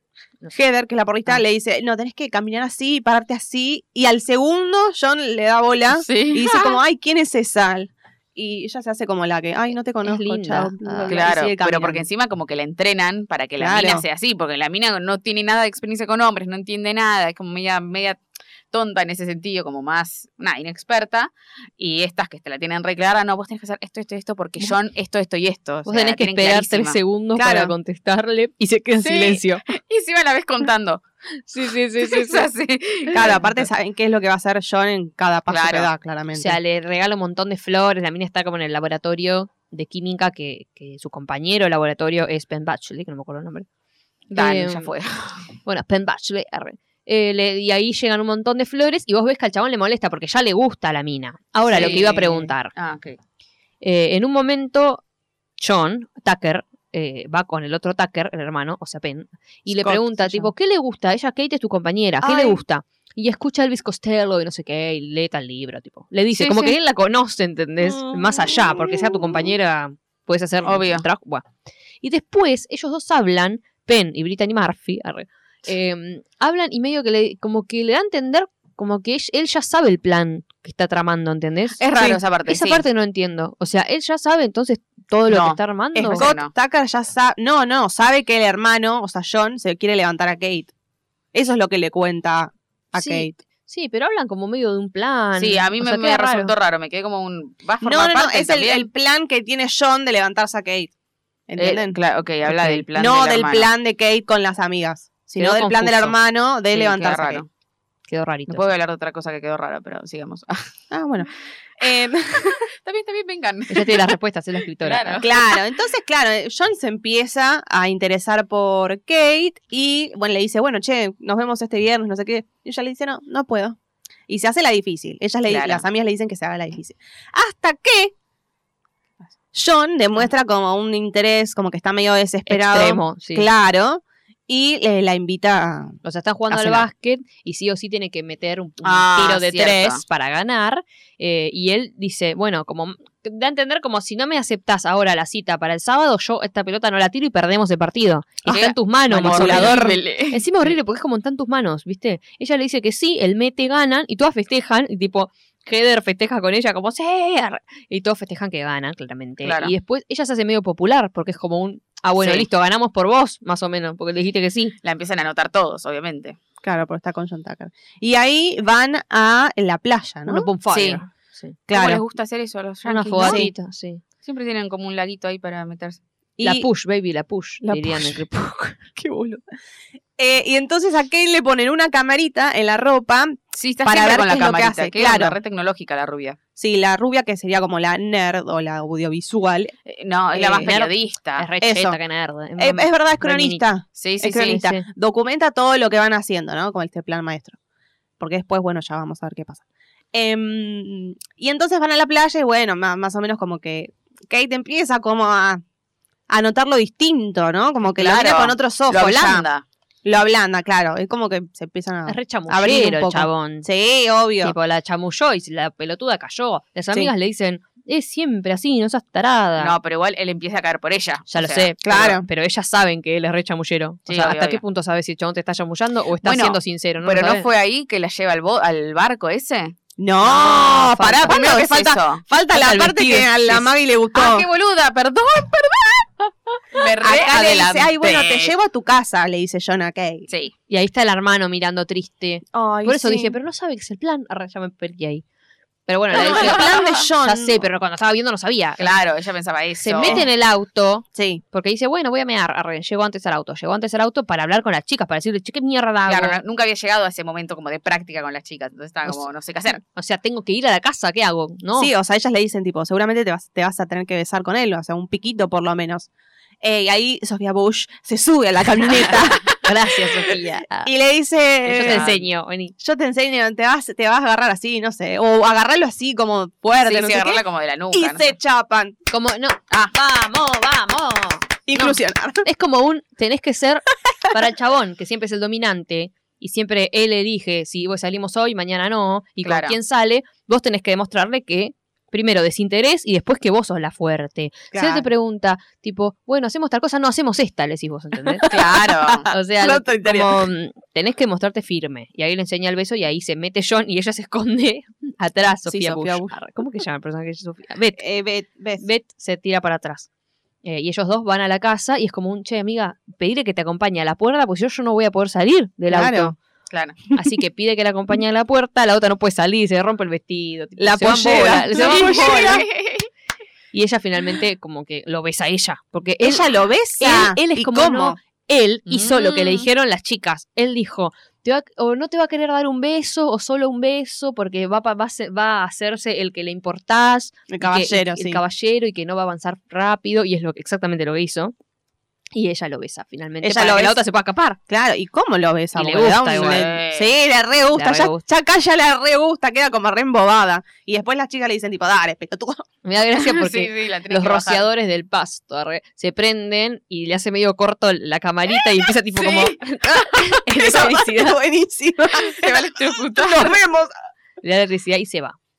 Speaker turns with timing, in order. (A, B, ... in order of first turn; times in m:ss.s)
0:00.5-0:12.0 A
0:05.9-0:06.8 B
0:10.0-0:11.3 C
0:11.1-0:18.2 B
0:13.6-0:14.0 A
0:18.7-0:27.0 B
0:25.8-0:29.6 C
0:27.4-0:27.7 A
0:29.0-0:31.0 B
0:31.5-0:32.5 C
0:32.0-0:33.6 B
0:33.1-0:36.6 A
0:35.5-0:35.9 B
0:36.3-0:43.7 C
0:44.3-0:45.5 B
0:44.3-0:44.9 C
0:45.6-0:52.7 C
0:51.7-0:52.5 A
0:51.7-0:52.2 B
0:52.7-0:53.2 B
0:53.8-0:55.0 C
0:55.6-1:11.4 C
0:59.7-1:00.5 A
1:02.2-1:02.6 A
1:06.3-1:06.7 B
1:07.8-1:09.5 A
1:10.6-1:11.0 B
1:12.0-1:26.3 C
1:21.8-1:22.8 B
1:25.3-1:26.5 B
1:26.0-1:30.7 A
1:31.3-1:33.3 A
1:33.0-1:36.5 C
1:35.4-1:38.9 B
1:37.8-1:40.9 A
1:41.5-1:42.0 A
1:41.6-1:43.7 B
1:42.4-1:42.8 C
1:42.9-1:47.4 A
1:45.4-1:46.2 C
1:46.7-1:47.5 B
1:48.1-1:48.7 C
1:48.5-1:50.7 B
1:50.9-1:52.6 A
1:52.4-1:54.1 B
1:53.7-1:55.2 C
1:54.8-1:55.4 B
1:55.2-2:03.8 A
2:04.3-2:08.1 A
2:05.4-2:05.9 B
2:09.5-2:16.0 A
2:12.5-2:13.5 C
2:16.0-2:44.7 C
2:16.5-2:16.9 A
2:18.8-2:20.0 B
2:28.5-2:30.0 A
2:29.1-2:30.7 B
2:39.4-2:39.7 B
2:42.2-2:42.5 B
2:44.8-2:46.4 B
2:46.6-2:50.5 A
2:50.3-2:51.6 C
2:50.7-2:51.0 B
2:51.7-2:52.0 A
2:51.7-2:53.5 B
2:52.8-2:54.0 C
2:53.2-2:53.5 A
2:54.2-2:56.0 B
2:56.4-2:56.7 A
2:56.4-2:58.8 C
2:57.6-2:58.2 A
2:58.8-2:59.4 A
3:00.2-3:05.4 A
3:03.5-3:06.4 B
3:06.6-3:09.7 A
3:09.8-3:11.5 B
3:10.3-3:10.7 A
3:10.6-3:13.6 C
3:11.6-3:12.0 A
3:12.6-3:17.6 A
3:14.0-3:14.6 B
3:14.4-3:14.8 C
3:18.2-3:19.6 A
3:20.1-3:25.6 A
3:26.3-3:29.4 A
3:27.8-3:29.6 B
3:30.0-3:34.5 A
3:32.1-3:33.7 C
3:34.4-3:39.8 C
3:39.6-3:41.7 B
3:41.3-3:47.5 C
3:41.8-3:42.2 A
3:44.1-3:44.6 B
3:46.2-3:52.2 B
3:50.0-3:54.5 A
3:50.6-3:51.4 C
3:52.5-3:53.7 C
3:54.1-3:58.5 B
3:57.0-4:00.3 A
4:00.3-4:00.5 B
4:00.7-4:05.2 C
4:02.5-4:03.4 A
4:05.9-4:08.9 C
4:06.1-4:07.7 A
4:06.1-4:07.0 B
4:08.8-4:10.2 B
4:09.8-4:16.4 C
4:10.0-4:10.3 A
4:11.1-4:11.4 A
4:16.0-4:19.8 B
4:19.9-4:21.9 C
4:21.7-4:26.1 A
4:26.6-4:29.4 A
4:29.0-4:30.9 C
4:29.3-4:29.6 B
4:30.7-4:32.2 A
4:31.6-4:32.7 C
4:31.7-4:32.2 B
4:32.8-4:38.9 A
4:36.7-4:38.3 B
4:39.1-4:58.5 C
4:41.7-4:42.4 A
4:49.4-4:49.8 B
4:54.7-4:55.1 A
4:58.2-5:00.5 A
4:58.4-4:59.3 B
4:59.3-5:08.0 C
5:05.6-5:06.3 A
5:08.0-5:08.8 A
5:08.8-5:10.1 C
5:10.6-5:16.3 C
5:15.9-5:16.3 A
5:16.7-5:17.0 B
5:17.1-5:22.6 C
5:20.8-5:22.6 A
5:21.6-5:23.1 B
5:23.7-5:26.5 C
5:26.2-5:28.2 A
5:27.0-5:41.5 C
5:28.9-5:29.7 B
5:37.5-5:38.4 A
5:42.3-5:44.6 C
5:43.4-5:44.0 A
5:44.7-5:52.6 A
5:45.7-5:46.7 C
5:46.3-5:47.1 B
5:47.7-5:48.2 C
5:52.8-6:01.4 C
5:53.2-5:54.7 B
5:59.1-5:59.6 B
6:00.5-6:03.9 A
6:02.1-6:03.6 B
6:04.4-6:05.4 C